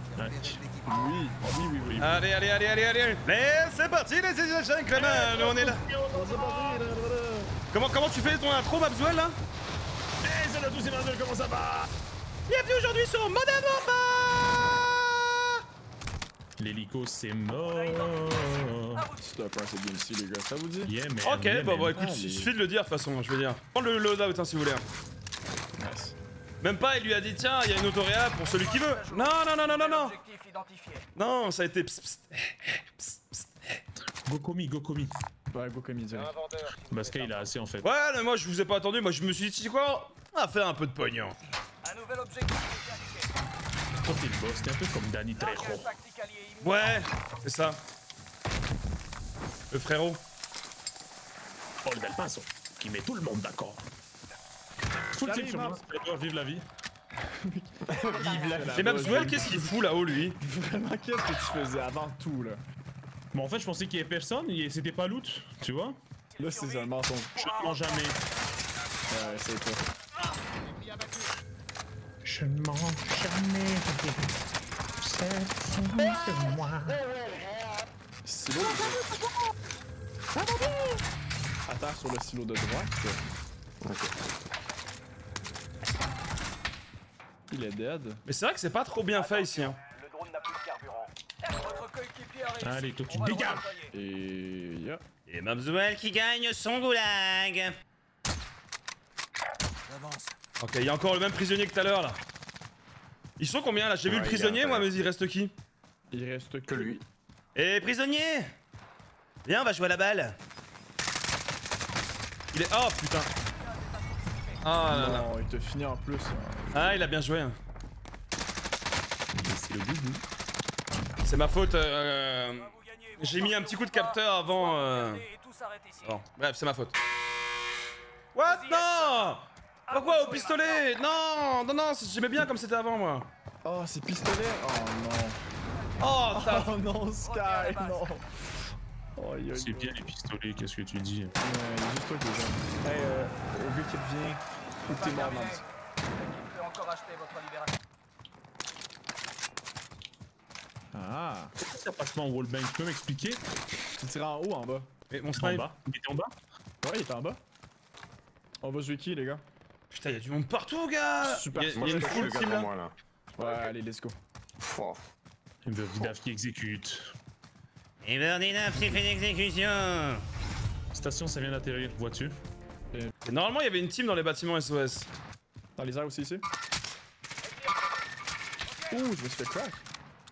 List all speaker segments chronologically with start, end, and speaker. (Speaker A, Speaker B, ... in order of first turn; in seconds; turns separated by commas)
Speaker A: 0.1-0.6, Speaker B: 0.8-2.1, Speaker C: 2.0-5.8, Speaker A: 5.0-6.9, Speaker B: 6.1-7.5, Speaker C: 7.7-9.3, Speaker A: 10.2-11.9, Speaker C: 12.5-15.5, Speaker A: 16.6-19.1, Speaker D: 17.7-18.4, Speaker B: 19.2-20.9, Speaker A: 20.8-22.1, Speaker C: 21.2-24.8, Speaker B: 21.9-22.5, Speaker B: 25.8-26.1, Speaker C: 26.6-30.1, Speaker D: 28.4-31.1, Speaker C: 31.2-33.8, Speaker A: 34.2-35.2, Speaker B: 35.5-36.4, Speaker A: 36.9-37.9, Speaker C: 37.8-41.4, Speaker D: 41.8-43.3, Speaker A: 43.9-45.9, Speaker D: 45.4-46.7, Speaker C: 46.6-47.8, Speaker C: 49.7-50.2, Speaker A: 51.8-53.9, Speaker A: 55.1-56.6, Speaker B: 55.2-55.8, Speaker B: 57.5-59.7, Speaker E: 57.9-59.5, Speaker C: 58.8-60.4, Speaker B: 60.4-62.6, Speaker A: 63.3-66.0, Speaker B: 66.4-67.4, Speaker D: 66.4-66.9, Speaker A: 67.3-68.2, Speaker B: 69.1-69.9, Speaker A: 72.2-74.3, Speaker A: 75.0-77.0, Speaker B: 78.2-79.0, Speaker A: 80.4-80.7, Speaker B: 81.7-83.2, Speaker E: 83.8-84.1, Speaker B: 87.5-88.2, Speaker C: 88.3-89.8, Speaker D: 91.4-93.9, Speaker A: 92.6-93.7, Speaker B: 93.9-95.0, Speaker C: 95.3-97.8, Speaker C: 100.6-102.2, Speaker C: 103.4-105.5, Speaker E: 104.0-104.9, Speaker B: 106.1-107.0, Speaker E: 106.7-107.0, Speaker C: 107.5-108.5, Speaker C: 109.4-110.4, Speaker C: 112.5-113.3, Speaker C: 114.6-115.3, Speaker B: 114.8-117.1, Speaker C: 116.7-117.5, Speaker A: 119.3-120.2, Speaker C: 121.2-125.2, Speaker D: 122.7-126.1, Speaker C: 126.0-126.9, Speaker C: 128.3-133.3, Speaker D: 128.5-129.2, Speaker D: 129.9-130.7, Speaker B: 133.6-135.4, Speaker C: 136.0-136.8, Speaker B: 136.3-138.3, Speaker D: 137.2-138.0, Speaker B: 139.2-140.1, Speaker A: 139.5-141.3, Speaker B: 141.4-145.6, Speaker D: 144.9-145.6, Speaker D: 146.3-147.7, Speaker B: 150.9-151.5, Speaker A: 151.6-153.4, Speaker B: 154.0-154.9, Speaker C: 155.1-155.7, Speaker A: 155.3-156.3, Speaker B: 156.8-157.4, Speaker B: 158.6-159.4, Speaker C: 159.9-162.7, Speaker B: 161.2-162.4, Speaker E: 161.7-162.9, Speaker B: 163.3-164.1, Speaker E: 164.6-165.1, Speaker A: 165.6-167.1, Speaker C: 168.0-170.2, Speaker A: 170.9-172.4, Speaker C: 173.2-175.1, Speaker B: 175.8-176.4, Speaker B: 178.9-179.8